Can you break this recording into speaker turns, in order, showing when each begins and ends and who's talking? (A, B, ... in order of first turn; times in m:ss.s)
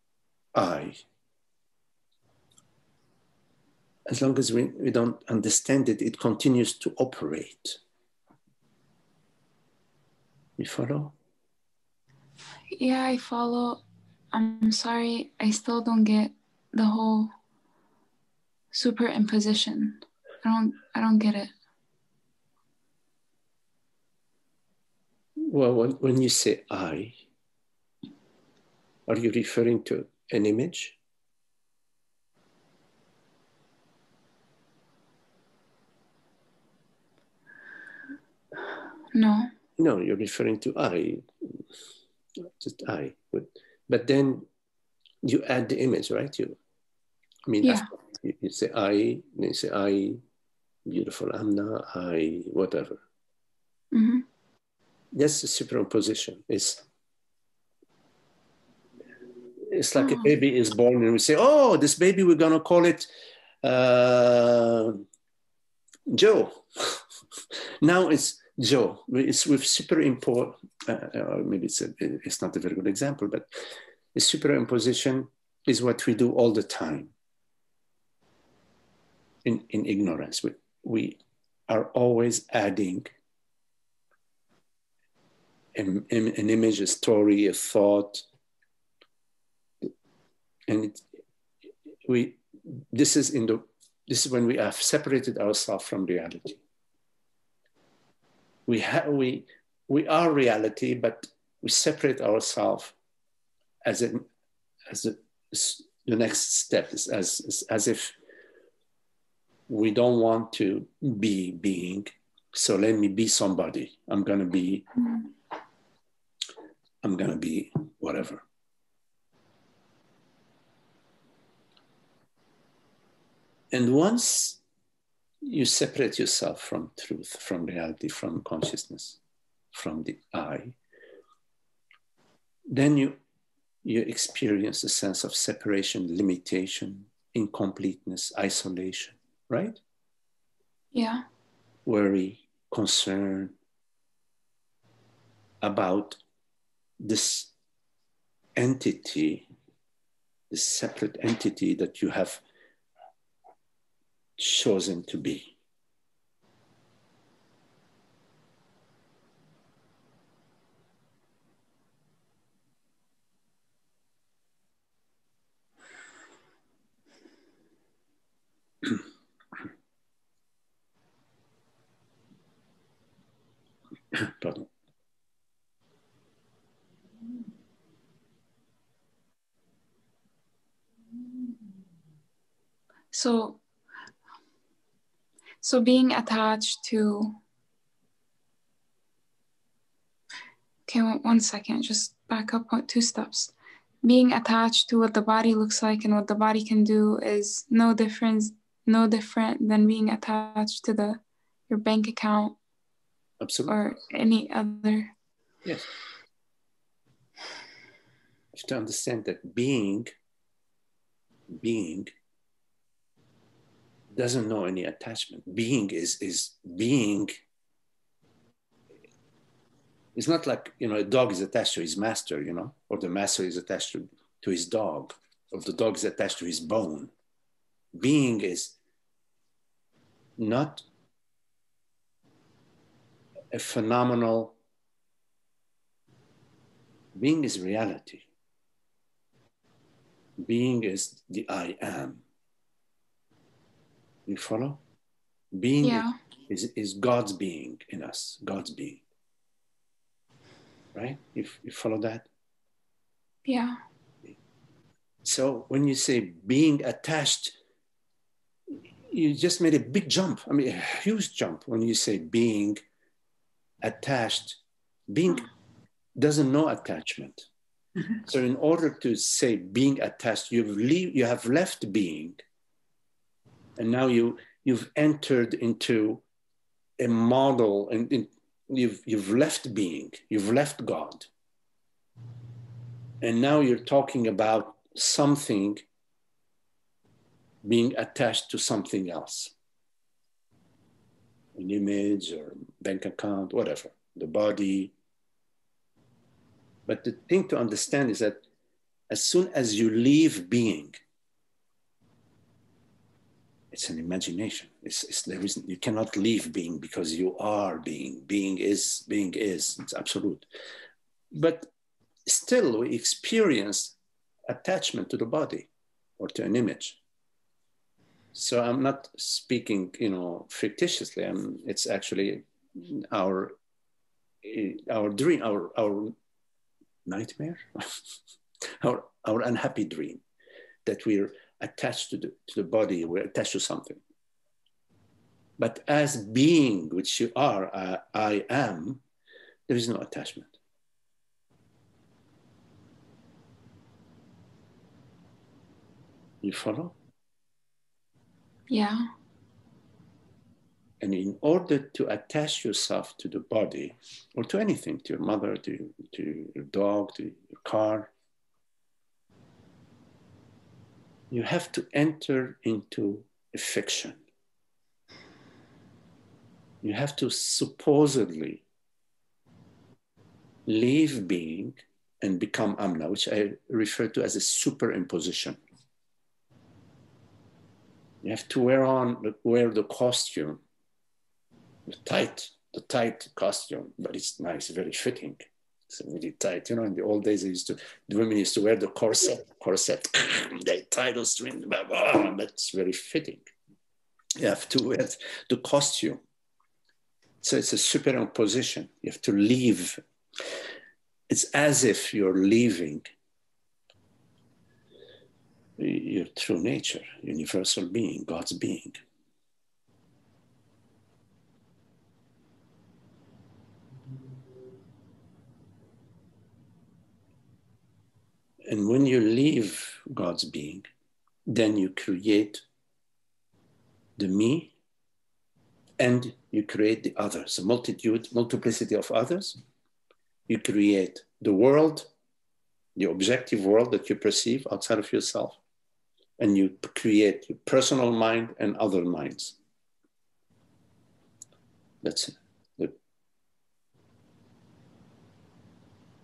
0:00.5-0:01.0 A
0:04.1-0:07.8 A
0:10.6-0:11.1 A
0:12.7-0:17.3 B
0:18.7-0:21.5 B
0:25.4-0:27.2 A
0:29.1-0:31.0 A
0:39.1-0:39.5 B
0:39.8-0:41.6 A
0:42.4-0:44.5 A
0:45.2-0:46.6 A
0:47.5-0:50.2 A
0:50.9-0:53.0 A
0:53.9-0:54.2 B
0:55.1-0:56.8 A
0:59.6-1:03.1 A
1:00.0-1:00.3 B
1:03.6-1:05.0 A
1:06.1-1:07.0 A
1:07.8-1:13.5 A
1:14.1-1:17.1 A
1:19.4-1:23.1 A
1:25.8-1:28.2 A
1:30.7-1:31.0 A
1:32.0-1:36.6 A
1:38.7-1:43.0 A
1:43.8-1:44.3 A
1:44.9-1:48.2 A
1:49.7-1:54.9 A
1:57.0-1:58.4 A
2:03.7-2:04.6 A
2:05.4-2:09.2 A
2:09.7-2:10.8 A
2:12.7-2:13.2 A
2:13.8-2:19.8 A
2:20.9-2:21.2 B
2:21.9-2:23.6 A
2:25.6-2:26.2 A
2:27.0-2:27.5 A
2:28.6-2:29.5 A
2:30.5-2:32.4 A
2:34.4-2:35.6 A
2:54.1-2:54.7 A
3:03.1-3:03.6 B
3:05.6-3:07.4 B
3:10.9-3:22.6 B
3:23.4-3:23.8 A
3:23.7-3:25.1 B
3:28.5-3:30.1 A
3:31.5-3:32.1 A
3:34.1-3:37.4 A
3:40.2-3:47.1 A
3:47.9-3:48.8 A
3:50.4-3:50.8 A
3:53.5-3:54.6 A
3:57.2-3:58.3 A
4:00.4-4:02.2 A
4:04.3-4:04.8 A
4:05.5-4:09.0 A
4:05.8-4:06.2 B
4:10.9-4:12.3 A
4:13.5-4:13.8 B
4:15.2-4:17.6 A
4:19.1-4:22.8 A
4:23.8-4:25.5 A
4:26.2-4:27.5 A
4:28.2-4:32.4 A
4:33.8-4:36.2 A
4:37.0-4:41.3 A
4:43.2-4:45.8 A
4:47.6-4:49.5 A
4:51.6-4:54.9 A
4:56.9-4:58.4 A
4:59.1-5:01.0 A
5:03.7-5:10.5 A
5:11.3-5:11.7 A
5:12.3-5:14.0 A
5:14.5-5:15.7 A
5:16.2-5:17.0 A
5:18.3-5:23.6 A
5:24.4-5:26.2 A
5:27.1-5:27.6 A
5:28.8-5:30.2 A
5:30.9-5:34.0 A
5:35.6-5:39.0 A
5:39.7-5:40.6 A
5:46.4-5:47.0 A
5:48.7-5:49.1 B
5:51.0-5:58.1 A
6:01.3-6:04.2 A
6:06.8-6:08.6 A
6:10.7-6:15.6 A
6:18.2-6:20.6 A
6:21.9-6:33.5 A
6:34.4-6:36.2 A
6:37.4-6:40.0 A
6:41.3-6:43.1 A
6:45.8-6:49.0 A
6:58.7-7:00.9 A
7:01.5-7:02.6 A
7:04.2-7:04.8 A
7:06.0-7:09.6 A
7:10.5-7:12.1 A
7:13.0-7:15.6 A
7:16.4-7:19.6 A
7:22.0-7:23.0 A